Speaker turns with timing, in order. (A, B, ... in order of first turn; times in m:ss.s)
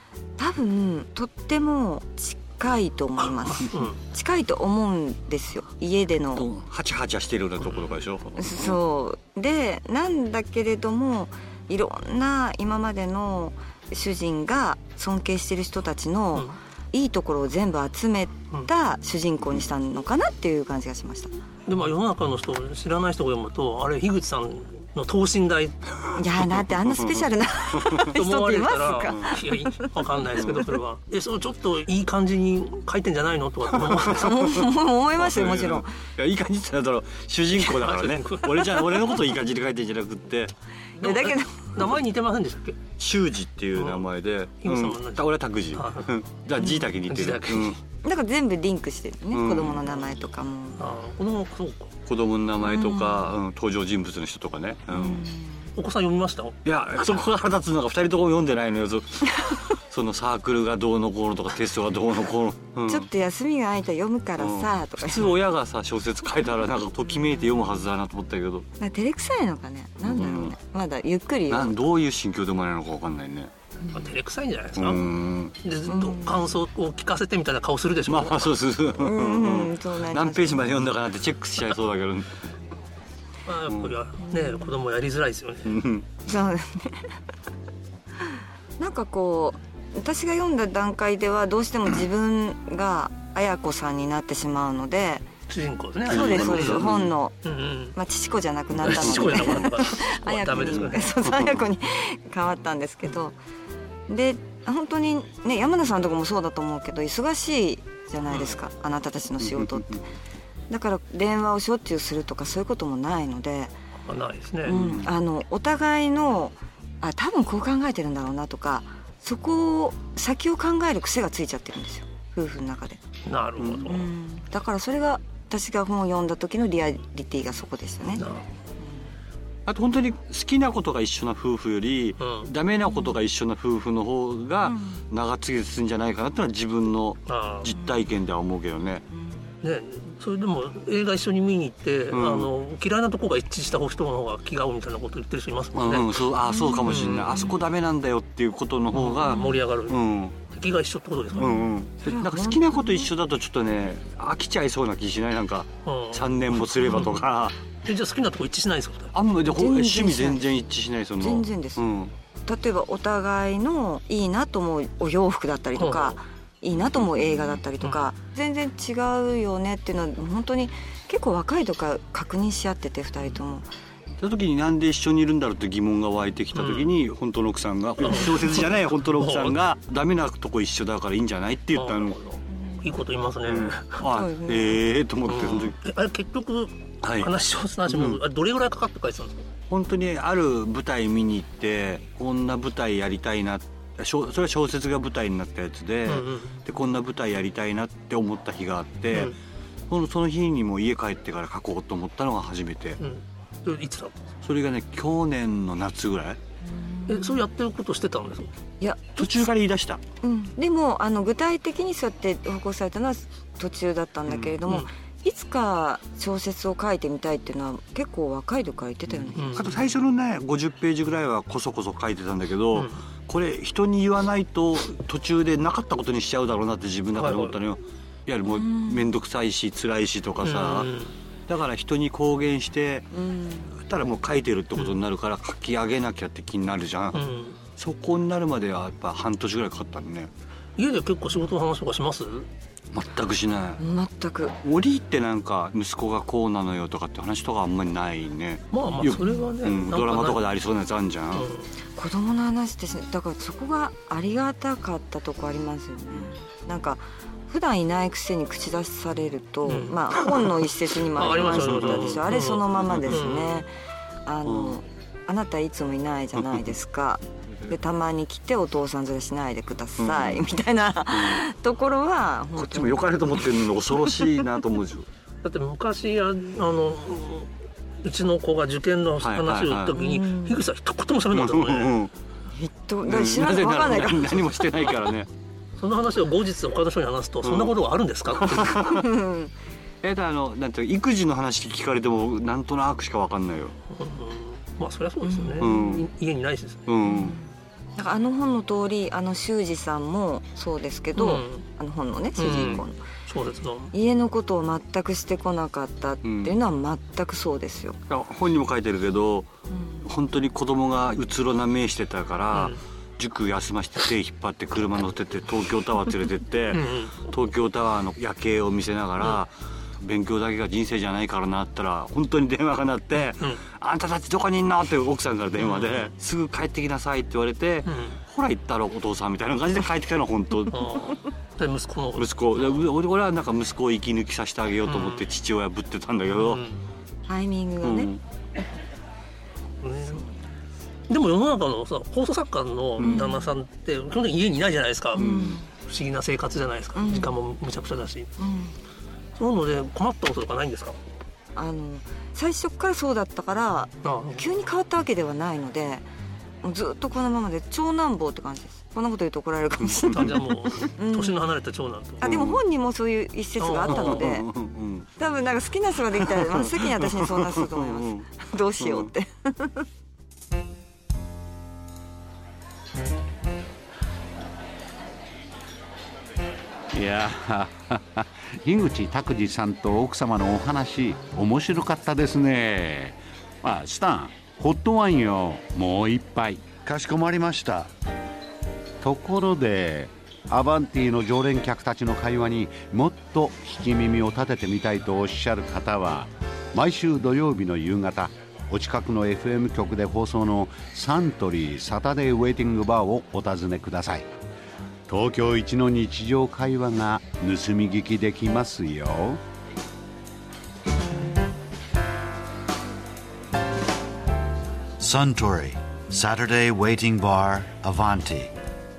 0:00.4-0:06.5 A
0:03.3-0:04.0 B
0:06.4-0:08.5 C
0:08.4-0:21.4 A
0:21.7-0:25.8 B
0:26.2-0:29.9 A
0:26.4-0:28.1 C
0:28.2-0:34.5 B
0:34.1-0:36.0 A
0:35.2-0:40.5 C
0:37.6-0:39.1 B
0:41.0-0:41.8 A
0:41.0-0:42.8 B
0:43.0-0:47.8 C
0:43.8-0:44.0 B
0:44.6-0:46.1 B
0:46.6-0:46.9 A
0:47.0-0:47.8 B
0:48.0-0:50.9 A
0:49.3-0:49.9 C
0:50.8-0:52.0 B
0:52.1-0:55.2 C
0:52.6-0:53.3 A
0:54.9-0:55.7 A
0:55.7-0:56.6 B
0:56.6-1:03.1 C
1:02.8-1:05.3 A
1:04.4-1:08.6 C
1:07.1-1:07.6 A
1:08.8-1:11.8 A
1:10.0-1:10.6 C
1:11.5-1:13.5 C
1:13.8-1:14.1 A
1:13.9-1:18.6 B
1:14.8-1:15.6 C
1:15.9-1:16.5 A
1:18.1-1:22.3 C
1:19.0-1:20.9 A
1:23.5-1:25.8 B
1:23.7-1:24.0 C
1:24.2-1:24.7 A
1:25.6-1:26.0 C
1:26.3-1:27.1 A
1:28.8-1:35.3 A
1:35.5-1:36.9 B
1:36.1-1:37.4 A
1:36.1-1:37.1 C
1:37.4-1:38.0 B
1:37.9-1:43.4 A
1:38.8-1:41.1 B
1:40.7-1:41.4 C
1:44.1-1:50.0 A
1:49.4-1:50.0 C
1:50.7-1:53.8 A
1:54.0-1:54.8 B
1:54.7-2:03.0 A
1:54.7-1:55.1 C
2:03.2-2:04.1 B
2:03.8-2:08.3 A
2:08.2-2:08.5 B
2:09.7-2:19.0 C
2:12.2-2:12.5 B
2:12.9-2:13.2 A
2:14.6-2:15.0 A
2:17.3-2:17.7 B
2:17.7-2:18.1 A
2:19.1-2:19.6 A
2:19.6-2:26.3 B
2:22.1-2:22.5 C
2:25.7-2:30.4 C
2:26.5-2:27.6 A
2:26.8-2:27.3 B
2:28.9-2:31.6 B
2:29.2-2:29.6 A
2:31.4-2:33.1 A
2:31.4-2:37.6 C
2:35.8-2:37.2 B
2:37.8-2:39.2 B
2:39.1-2:42.1 C
2:39.5-2:40.5 A
2:41.2-2:41.8 A
2:42.5-2:53.7 A
2:45.8-2:46.2 B
2:47.4-2:48.1 B
2:54.2-3:02.2 C
2:56.5-2:56.9 B
2:58.0-2:59.6 B
3:01.7-3:04.0 B
3:02.5-3:03.0 A
3:03.5-3:05.8 C
3:04.0-3:04.8 A
3:05.2-3:09.5 B
3:07.0-3:07.3 C
3:07.9-3:08.2 C
3:09.7-3:19.3 C
3:16.1-3:16.6 B
3:19.9-3:23.0 C
3:23.0-3:24.2 B
3:24.4-3:26.4 C
3:26.6-3:27.5 A
3:27.1-3:28.5 B
3:28.8-3:29.5 A
3:29.2-3:30.0 C
3:30.2-3:39.8 A
3:34.3-3:34.6 C
3:39.4-3:39.6 B
3:39.5-3:53.1 C
3:42.7-3:43.0 B
3:47.1-3:47.6 B
3:48.5-3:49.1 A
3:50.4-3:51.2 B
3:53.1-3:53.8 A
3:53.7-3:57.2 C
3:57.1-3:57.6 B
3:57.8-4:00.3 C
4:00.8-4:02.5 B
4:02.9-4:03.8 C
4:03.8-4:04.6 A
4:04.6-4:11.5 C
4:08.7-4:10.4 B
4:09.2-4:09.4 A
4:11.3-4:11.7 B
4:12.0-4:23.7 A
4:19.7-4:20.4 B
4:21.1-4:23.6 B
4:21.6-4:23.2 C
4:24.3-4:33.5 A
4:24.5-4:24.8 C
4:30.0-4:30.4 C
4:31.1-4:31.4 C
4:32.6-4:35.1 C
4:35.4-4:42.0 B
4:39.2-4:40.0 C
4:39.9-4:40.6 A
4:41.3-4:42.1 C
4:42.5-4:45.0 A
4:43.0-4:45.3 C
4:45.8-4:48.8 B
4:47.4-4:47.8 C
4:48.3-4:49.0 C
4:48.8-4:49.5 A
4:50.0-4:53.8 C
4:53.9-4:56.9 B
4:55.2-4:56.0 A
4:55.6-4:56.1 C
4:56.9-4:57.3 C
4:57.1-5:03.1 A
5:01.2-5:01.7 B
5:02.4-5:03.9 B
5:03.9-5:08.0 A
5:06.2-5:06.6 C
5:08.1-5:09.5 C
5:09.7-5:10.0 A
5:10.0-5:30.8 C
5:12.5-5:12.8 B
5:16.7-5:17.3 B
5:23.3-5:23.6 B
5:25.6-5:26.1 B
5:27.8-5:28.2 B
5:30.7-5:32.9 B
5:32.2-5:36.6 C
5:34.8-5:35.2 B
5:36.4-5:36.8 B
5:37.3-5:38.1 A
5:37.8-5:38.2 C
5:39.8-5:40.3 B
5:41.1-5:48.4 B
5:43.0-5:43.5 A
5:45.1-5:45.7 A
5:45.2-5:45.6 C
5:47.0-5:47.4 A
5:48.4-5:48.8 A
5:49.4-5:51.0 B
5:51.6-5:56.1 A
5:54.0-5:54.6 B
5:56.6-6:01.4 A
5:59.8-6:00.2 C
6:00.1-6:02.4 B
6:02.2-6:04.5 A
6:02.2-6:02.6 C
6:03.6-6:04.2 B
6:03.9-6:05.1 C
6:05.2-6:09.8 A
6:06.2-6:08.2 C
6:08.8-6:09.1 C
6:16.9-6:26.6 D
6:26.9-6:27.9 E
6:29.0-6:44.3 D
6:45.1-6:49.4 D
6:55.0-6:58.5 E